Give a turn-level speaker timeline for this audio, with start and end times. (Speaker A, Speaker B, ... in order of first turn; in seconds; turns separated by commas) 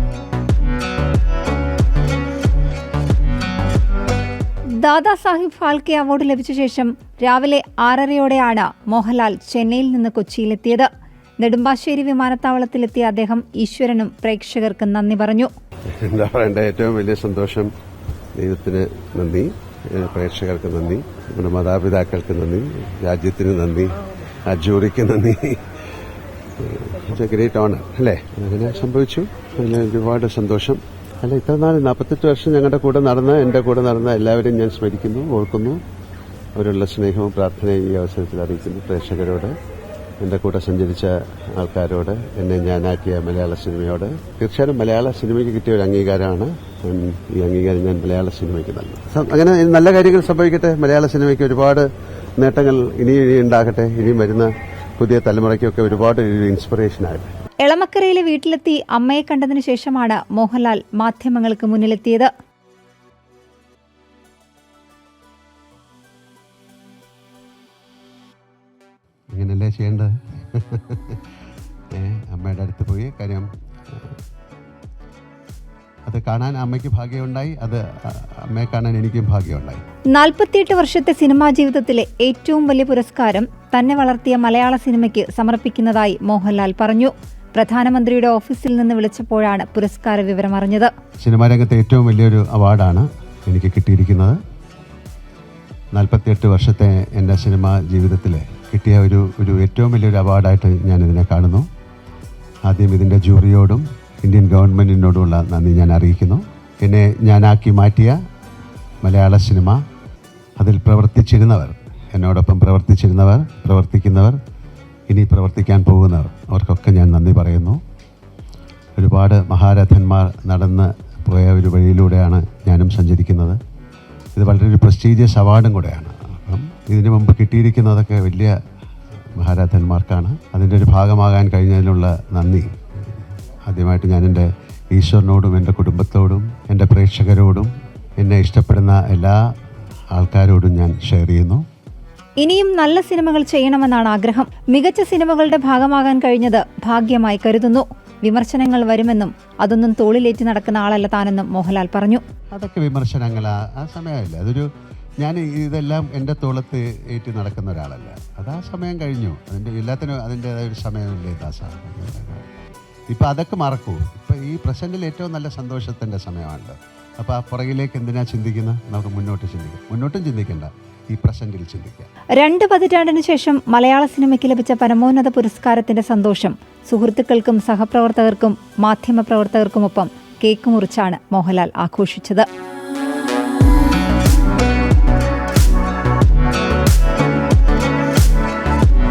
Speaker A: 4.8-10.9, Speaker A: 11.4-15.5, Speaker B: 15.9-17.7, Speaker B: 18.4-25.7, Speaker B: 26.6-35.8, Speaker B: 36.5-39.5, Speaker B: 40.2-57.3, Speaker A: 57.6-62.3, Speaker B: 69.3-71.2, Speaker B: 72.0-74.1, Speaker B: 76.1-79.8, Speaker A: 80.1-90.9, Speaker B: 91.2-94.4, Speaker B: 95.9-101.7, Speaker B: 102.7-108.2, Speaker B: 109.0-109.8, Speaker B: 110.6-114.4, Speaker B: 115.1-117.8, Speaker B: 119.0-123.6, Speaker B: 124.4-128.6, Speaker B: 129.3-139.4, Speaker B: 140.1-141.6, Speaker A: 142.4-152.2, Speaker B: 152.5-154.7, Speaker B: 155.2-162.5, Speaker B: 163.1-172.1, Speaker A: 172.4-182.5